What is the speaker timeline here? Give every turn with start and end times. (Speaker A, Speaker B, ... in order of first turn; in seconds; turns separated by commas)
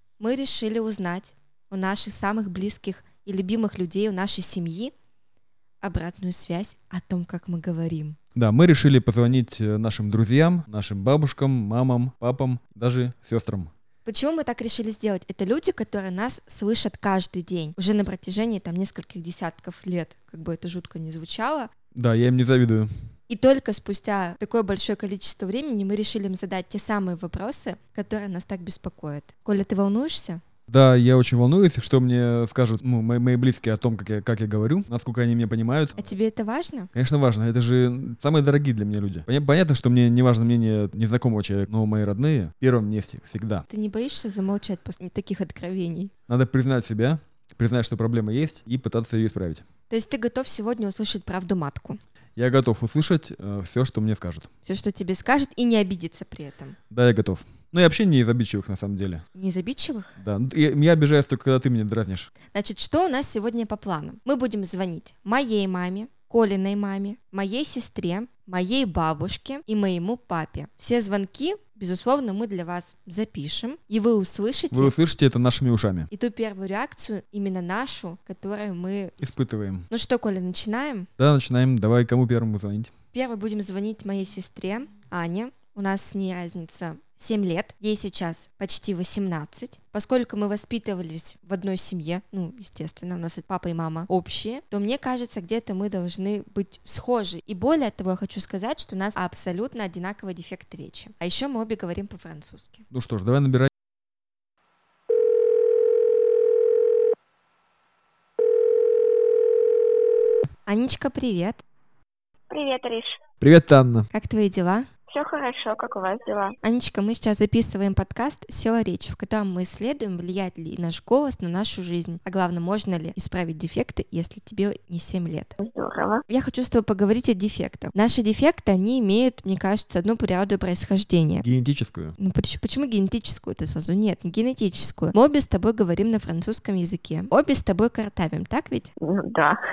Speaker A: 0.2-4.9, Speaker A: 5.8-8.2, Speaker B: 8.3-13.7, Speaker A: 14.0-21.7, Speaker B: 21.9-22.9, Speaker A: 23.3-30.4, Speaker B: 30.7-36.1, Speaker A: 36.0-36.9, Speaker B: 36.9-43.6, Speaker A: 43.7-46.1, Speaker B: 46.3-49.6, Speaker A: 49.9-52.0, Speaker B: 52.4-54.5, Speaker A: 54.6-56.8, Speaker B: 56.9-59.2, Speaker A: 59.3-60.1, Speaker B: 60.2-62.3, Speaker A: 62.5-74.9, Speaker B: 74.7-76.1, Speaker A: 76.1-79.2, Speaker B: 79.2-79.9, Speaker A: 79.9-81.1, Speaker B: 81.2-82.9, Speaker A: 83.1-102.8, Speaker B: 102.9-103.7, Speaker A: 110.7-111.6, Speaker C: 112.5-113.2, Speaker B: 113.4-114.1, Speaker A: 114.1-114.9, Speaker C: 115.1-116.6, Speaker A: 116.6-125.5, Speaker C: 125.6-126.2, Speaker A: 126.3-131.4, Speaker B: 131.4-132.2, Speaker A: 132.2-138.9, Speaker C: 139.0-139.6